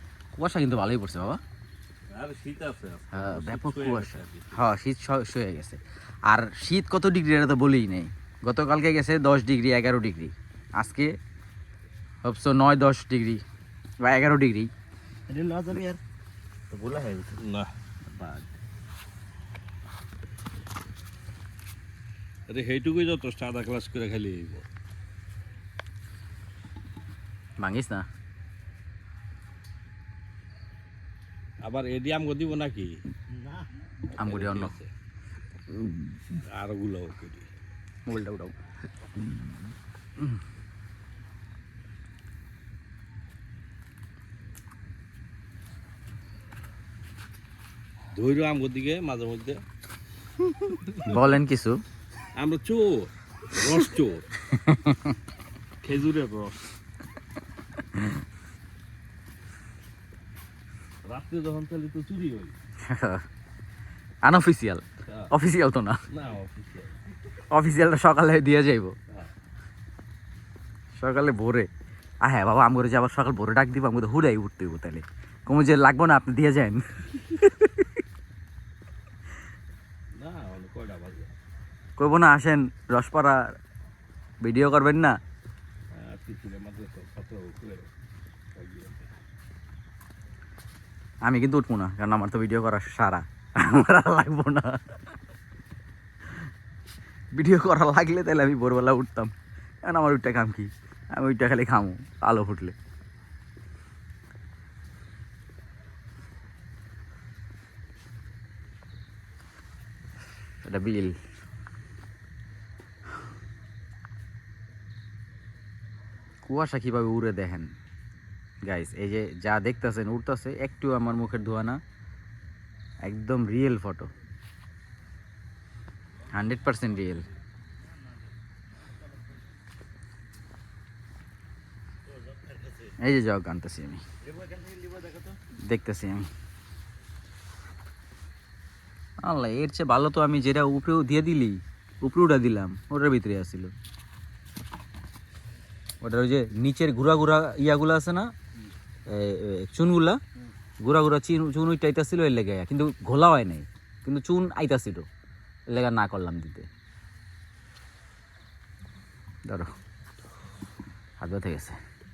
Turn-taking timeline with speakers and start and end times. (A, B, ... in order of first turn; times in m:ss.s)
0:00.4-0:01.4 A
0:02.1-0:04.6 B
0:03.1-0:11.1 A
0:12.2-0:13.4 A
0:14.0-0:14.7 A
0:15.3-0:16.0 C
0:16.7-0:17.4 C
0:17.4-0:17.7 B
0:22.5-0:24.7 B
0:27.6-0:28.1 A
0:31.6-0:33.0 B
0:33.3-0:33.8 C
0:34.2-0:34.7 A
0:34.2-0:34.9 B
0:35.7-0:36.2 A
0:36.4-0:37.5 B
0:38.1-0:38.6 A
0:48.1-0:49.6 B
0:50.9-0:51.1 B
0:51.0-0:51.8 A
0:52.4-0:54.3 B
0:54.6-0:55.2 A
0:55.8-0:56.6 B
1:01.0-1:02.6 B
1:02.8-1:03.2 A
1:04.2-1:06.0 A
1:06.1-1:07.0 B
1:07.5-1:08.9 A
1:11.0-1:11.7 A
1:12.2-1:17.9 A
1:20.2-1:21.3 B
1:22.0-1:23.6 A
1:24.4-1:25.2 A
1:25.9-1:27.9 B
1:28.5-1:29.2 B
1:31.2-1:35.1 A
1:37.3-1:39.3 A
1:39.8-1:42.8 A
1:50.6-1:51.2 A
1:56.4-1:57.7 A
1:58.6-2:01.8 A
2:03.0-2:04.1 A
2:06.3-2:07.3 A
2:06.7-2:07.0 B
2:07.8-2:08.2 C
2:09.0-2:09.4 C
2:12.1-2:13.0 C
2:13.0-2:14.0 A
2:14.2-2:15.4 C
2:15.6-2:16.3 A
2:19.2-2:23.7 A
2:26.0-2:28.3 A
2:29.1-2:30.2 A
2:30.8-2:35.1 A
2:35.7-2:36.7 A
2:41.2-2:41.8 A